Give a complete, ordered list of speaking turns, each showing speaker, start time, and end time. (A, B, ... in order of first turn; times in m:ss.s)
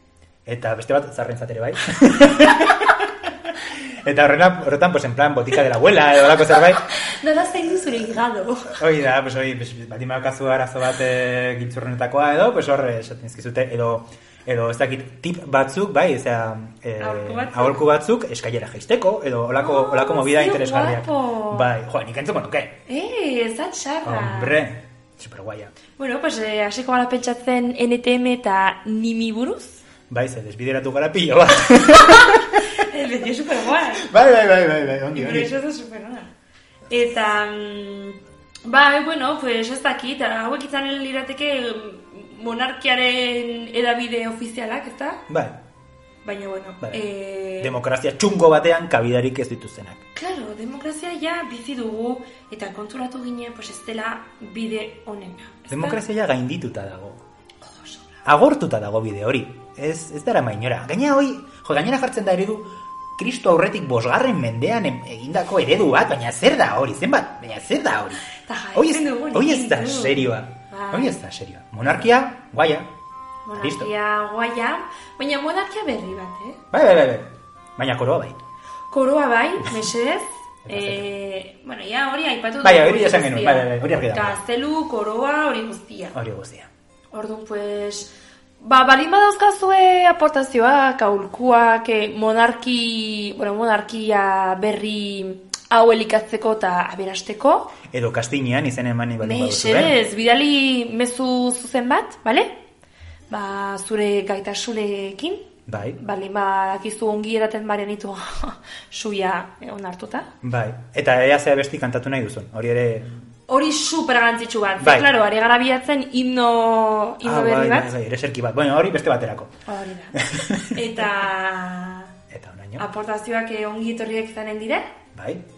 0:00.5-0:06.8 A
0:06.5-0:08.8 B
0:08.7-0:22.8 A
0:17.0-0:17.8 B
0:19.6-0:21.7 B
0:22.9-0:24.6 B
0:24.0-0:25.7 A
0:26.0-0:29.8 B
0:30.1-0:32.7 A
0:31.9-0:34.1 B
0:34.0-0:35.5 A
0:35.1-0:36.3 B
0:36.9-0:45.2 B
0:45.3-0:45.6 A
0:46.2-0:47.8 B
0:47.6-0:50.0 A
0:50.2-0:56.0 B
0:55.7-0:57.2 A
0:57.6-0:58.2 B
0:58.2-1:12.9 A
1:08.3-1:11.2 B
1:13.4-1:16.6 B
1:13.6-1:13.9 A
1:16.7-1:18.4 A
1:18.9-1:26.2 B
1:20.7-1:21.1 A
1:22.6-1:24.4 A
1:26.1-1:26.7 A
1:27.1-1:37.7 B
1:37.9-1:40.0 A
1:39.2-1:42.5 B
1:43.3-1:50.3 B
1:45.7-1:46.0 A
1:50.4-1:53.2 A
1:53.5-1:57.9 B
1:54.8-1:55.1 A
1:57.2-1:59.6 A
1:59.7-2:02.1 B
2:00.2-2:01.1 A
2:02.3-2:02.9 A
2:02.8-2:04.9 B
2:05.1-2:05.4 A